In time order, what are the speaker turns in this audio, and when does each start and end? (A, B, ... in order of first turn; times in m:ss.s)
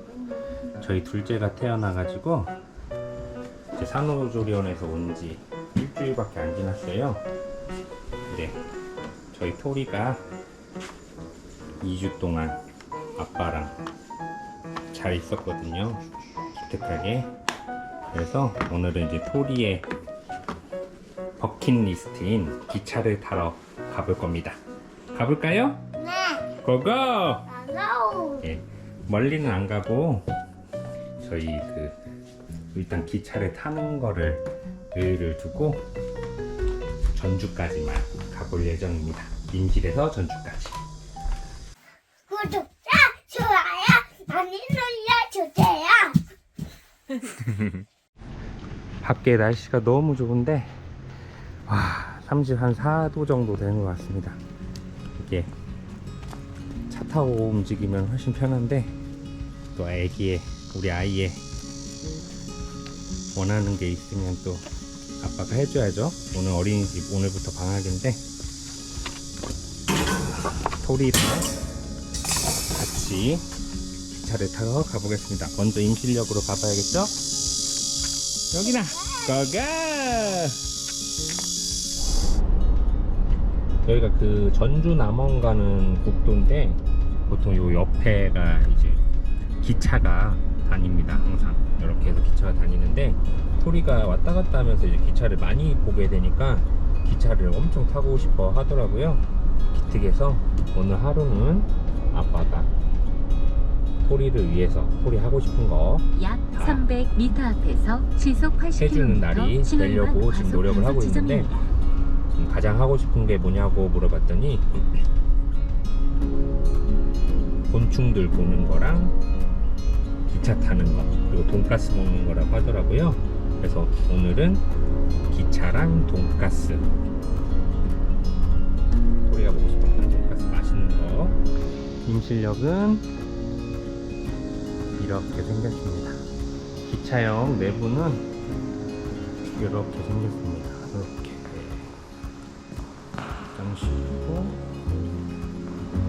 0:00.8-0:02.5 A
0:03.7-0:07.2 A
0:08.3-0:08.6 A
0:09.3-0:10.2 A
0:11.8-0:12.6 A
0:13.2-0:13.8 A
0:14.9-0:17.3 A
0:18.1-0:19.9 A
0:21.4-0:24.6 A
0:25.1-0:25.8 A
0:26.1-0:26.4 B
0:26.5-0:27.6 A
0:27.6-0:28.4 B
0:28.4-0:30.2 A
0:31.2-0:32.0 A
0:32.7-0:35.8 A
0:37.1-0:40.8 A
0:42.3-0:46.2 B
0:47.4-0:47.8 A
0:49.0-0:50.8 A
0:51.7-0:54.4 A
0:55.2-0:55.5 A
0:56.9-0:59.0 A
0:59.7-1:01.4 A
1:03.3-1:04.6 A
1:05.2-1:08.2 A
1:10.8-1:11.5 A
1:12.7-1:13.4 A
1:14.1-1:17.1 A
1:18.5-1:20.6 A
1:23.8-1:29.0 A
1:29.6-1:42.7 A
1:44.0-1:46.8 A
1:46.1-1:46.5 B
1:46.2-1:51.5 C
1:48.2-1:49.3 B
1:48.7-1:51.5 A
1:52.3-1:54.7 A
1:57.7-1:59.2 A
2:00.3-2:04.6 A
2:05.3-2:06.9 A
2:09.2-2:11.4 A
2:12.0-2:13.0 A
2:15.0-2:16.2 A
2:16.8-2:18.2 A
2:19.5-2:21.9 A
2:23.5-2:24.7 A